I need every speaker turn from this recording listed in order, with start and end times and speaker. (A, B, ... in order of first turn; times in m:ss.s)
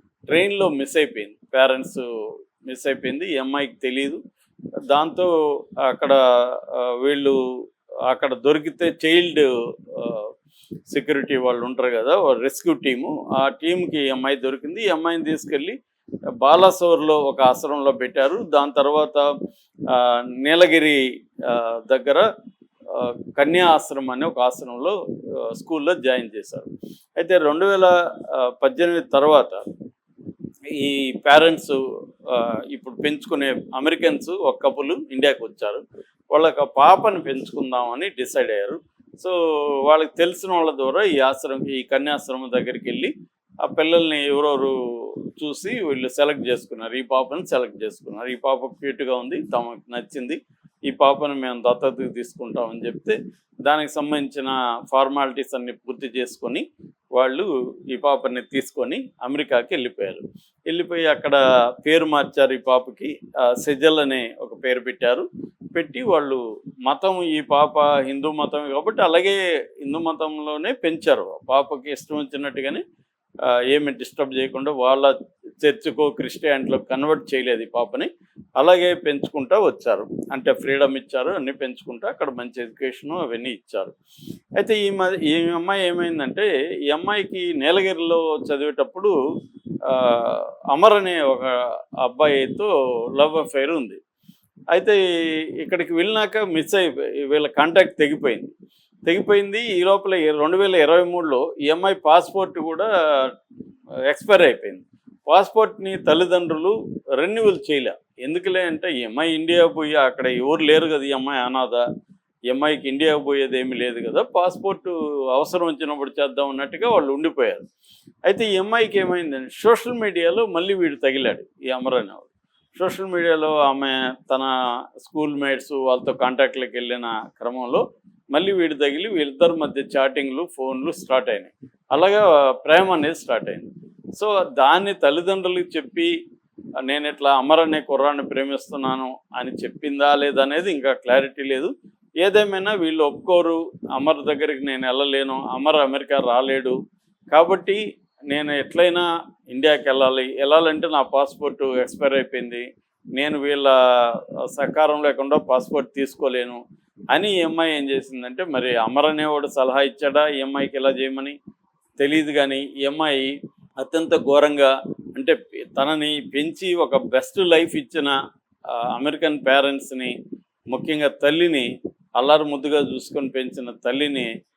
0:00.3-0:02.0 A
0:02.7-0:04.2 A
0:04.9-0:05.3 A
0:05.8-0:07.4 A
0:08.1-0:10.3 A
0:10.9-0:15.8 A
0:16.4-0:19.3 A
0:19.9-0:22.3 A
0:22.9-0:29.6 A
0:30.7-0:35.8 A
0:36.3-0:43.1 A
0:43.6-0:56.6 A
0:57.2-1:12.8 A
1:13.5-1:23.9 A
1:24.6-1:29.2 A
1:29.8-1:34.0 A
1:34.7-1:35.0 A
1:35.6-1:38.5 A
1:39.1-1:43.3 A
1:44.1-1:51.8 A
1:52.5-1:57.6 A
1:58.3-2:04.5 A
2:05.0-2:16.1 A
2:16.8-2:21.7 A
2:22.2-2:26.8 A
2:27.3-2:27.8 A
2:28.3-2:32.6 A
2:33.2-2:36.6 A
2:37.1-2:41.4 A
2:42.0-2:48.2 A
2:48.9-2:50.2 A
2:50.7-2:54.3 A